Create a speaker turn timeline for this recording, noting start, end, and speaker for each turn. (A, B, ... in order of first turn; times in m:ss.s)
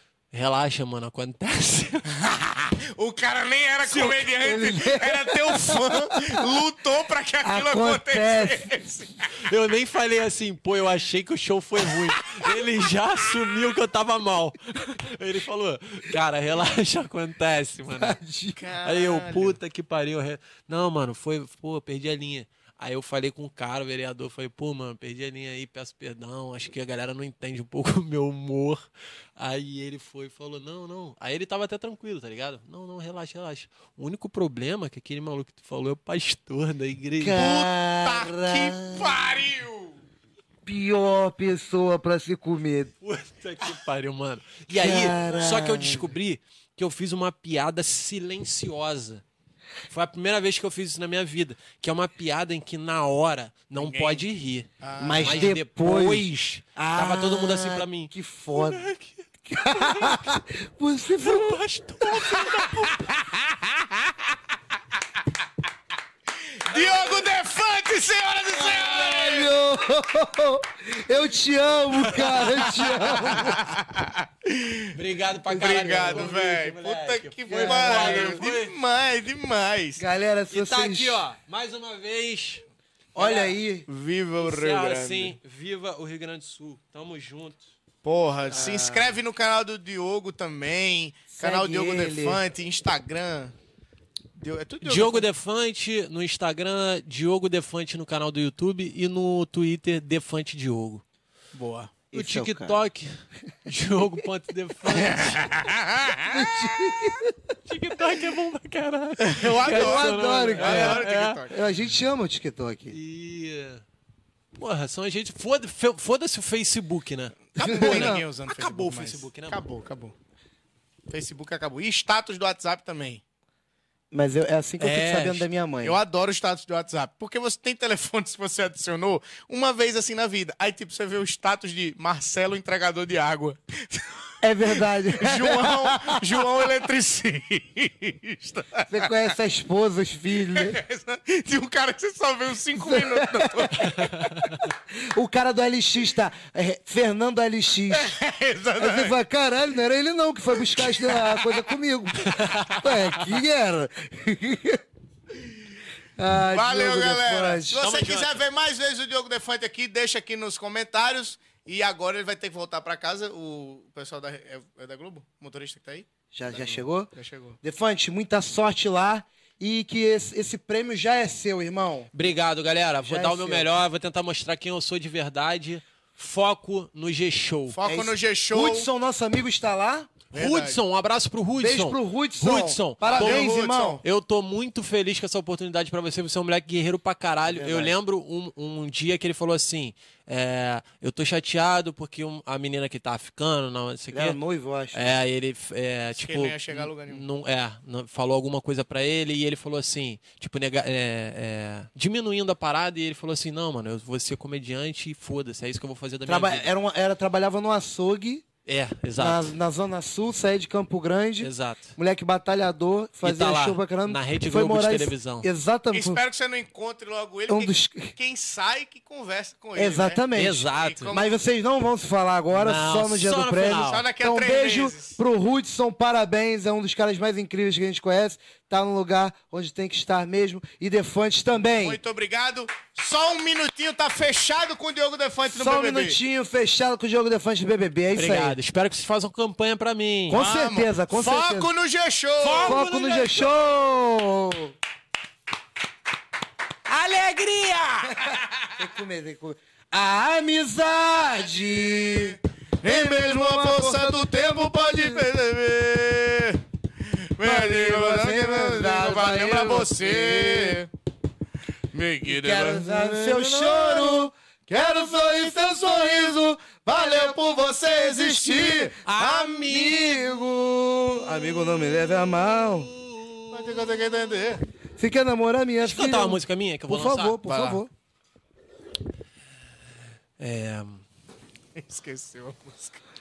0:00.3-0:02.2 A
0:02.1-0:09.3 B
0:03.8-0:04.2 A
0:04.4-0:06.4 C
0:07.4-0:08.7 C
0:09.4-0:18.2 A
0:18.0-0:18.7 C
0:18.6-0:19.6 B
0:18.8-0:28.8 A
0:29.4-0:37.4 A
0:37.2-0:39.2 C
0:37.3-0:40.0 B
0:40.6-0:42.9 C
0:43.0-0:49.2 A
0:44.7-0:46.1 C
0:49.9-0:54.7 A
0:53.7-0:54.2 B
0:54.8-0:55.5 B
0:55.0-0:58.9 C
0:55.2-1:00.3 A
0:59.4-1:01.6 C
1:01.2-1:02.9 A
1:02.2-1:02.8 C
1:02.3-1:03.8 B
1:06.4-1:09.5 B
1:08.5-1:13.7 C
1:12.0-1:13.5 A
1:13.3-1:14.9 B
1:14.9-1:18.7 A
1:15.4-1:16.4 C
1:15.6-1:20.0 B
1:17.5-1:18.4 C
1:20.0-1:21.2 C
1:20.5-1:22.6 A
1:23.1-1:23.9 C
1:23.2-1:23.5 A
1:23.9-1:25.4 B
1:24.4-1:27.7 A
1:28.0-1:33.5 B
1:28.5-1:29.2 C
1:31.3-1:32.4 C
1:34.4-1:35.2 B
1:34.8-1:41.0 A
1:41.5-1:41.9 B
1:42.1-1:45.5 A
1:42.1-1:42.8 C
1:44.9-1:46.5 B
1:46.2-1:47.4 C
1:47.6-1:51.4 A
1:49.2-1:51.6 B
1:49.7-1:53.0 C
1:52.9-1:53.8 A
1:54.6-1:59.6 A
1:57.5-2:00.1 B
1:57.6-1:58.2 C
2:01.1-2:03.2 B
2:04.1-2:06.0 C
2:04.8-2:05.5 A
2:05.8-2:19.3 B
2:14.4-2:16.4 C
2:18.9-2:20.8 C
2:20.5-2:24.0 B
2:22.8-2:23.9 C
2:23.8-2:24.7 A
2:24.9-2:28.1 C
2:27.9-2:29.2 B
2:28.8-2:34.8 C
2:30.7-2:31.2 B
2:32.2-2:33.2 A
2:36.2-2:37.8 C
2:36.5-2:47.6 B
2:37.8-2:38.4 A
2:46.3-2:47.1 C
2:47.6-2:52.1 C
2:52.1-2:57.8 A
2:53.0-2:53.7 C
2:57.7-2:58.9 B
2:57.8-3:00.1 C
3:00.3-3:00.8 B
3:00.3-3:14.4 A
3:01.6-3:04.0 C
3:03.0-3:04.0 B
3:07.5-3:08.0 C
3:14.1-3:15.2 C
3:14.9-3:26.7 A
3:16.2-3:17.2 B
3:26.2-3:28.4 C
3:28.6-3:29.5 A
3:29.2-3:36.2 C
3:31.4-3:32.0 A
3:33.2-3:35.5 A
3:35.9-3:41.3 B
3:37.5-3:38.1 C
3:39.8-3:52.0 C
3:40.3-3:41.2 A
3:42.5-3:44.0 A
3:43.8-3:45.2 B
3:51.7-3:56.2 B
3:55.4-3:58.6 C
3:58.1-4:00.4 A
4:00.3-4:01.7 C
4:00.3-4:02.8 B
4:02.4-4:03.5 A
4:02.6-4:04.7 C
4:06.8-4:08.2 A
4:08.2-4:15.2 C
4:12.8-4:20.9 B
4:17.4-4:20.8 C
4:21.9-4:30.2 B
4:22.2-4:24.3 C
4:25.0-4:27.4 C
4:27.9-4:28.9 C
4:29.0-4:30.3 A
4:29.6-4:32.9 C
4:31.5-4:34.0 A
4:33.5-4:34.6 B
4:35.0-4:37.9 C
4:35.8-4:37.6 A
4:37.4-4:37.8 B
4:40.4-4:41.0 A
4:41.7-4:43.0 B